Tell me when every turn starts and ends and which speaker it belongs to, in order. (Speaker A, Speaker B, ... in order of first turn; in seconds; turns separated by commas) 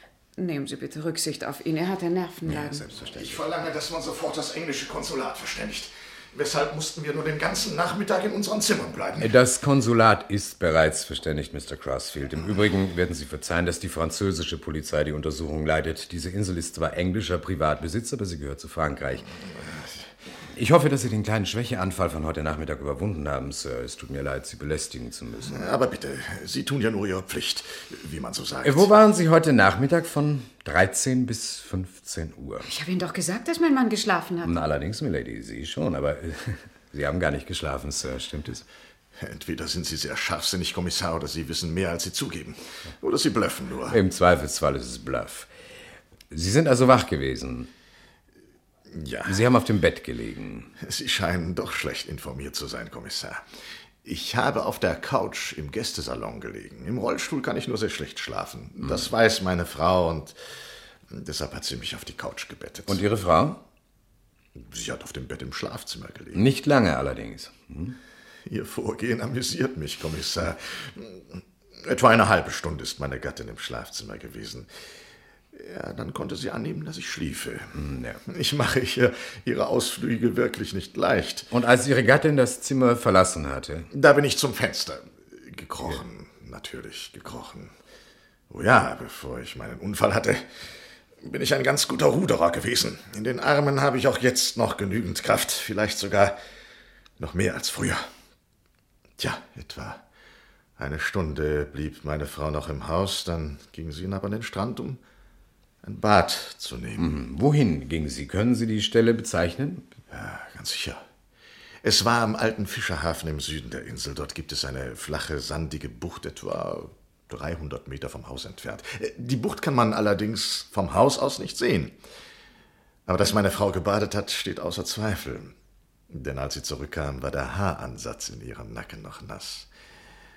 Speaker A: 0.4-2.8, Speaker B: 2.5-3.4, Speaker C: 3.0-9.3, Speaker B: 9.2-19.3, Speaker B: 20.5-25.7, Speaker C: 25.5-28.9, Speaker B: 28.6-32.7, Speaker A: 32.6-34.5, Speaker B: 34.4-38.6, Speaker C: 39.2-44.0, Speaker B: 43.9-45.5, Speaker B: 46.3-47.7, Speaker C: 48.9-49.4, Speaker B: 49.2-50.7, Speaker C: 50.8-53.4, Speaker C: 54.0-60.4, Speaker C: 61.1-63.0, Speaker B: 62.9-63.6, Speaker C: 64.5-66.4, Speaker B: 66.3-68.0, Speaker C: 68.5-74.7, Speaker C: 75.5-77.7, Speaker B: 77.7-78.2, Speaker C: 78.3-81.5, Speaker B: 81.5-83.9, Speaker C: 83.9-87.7, Speaker C: 88.5-90.4, Speaker C: 91.2-96.3, Speaker C: 97.2-98.0, Speaker C: 99.2-100.0, Speaker C: 100.8-105.0, Speaker C: 105.8-107.1, Speaker B: 107.0-109.9, Speaker C: 110.1-111.0, Speaker C: 111.8-122.0, Speaker C: 123.1-125.5, Speaker C: 126.1-129.7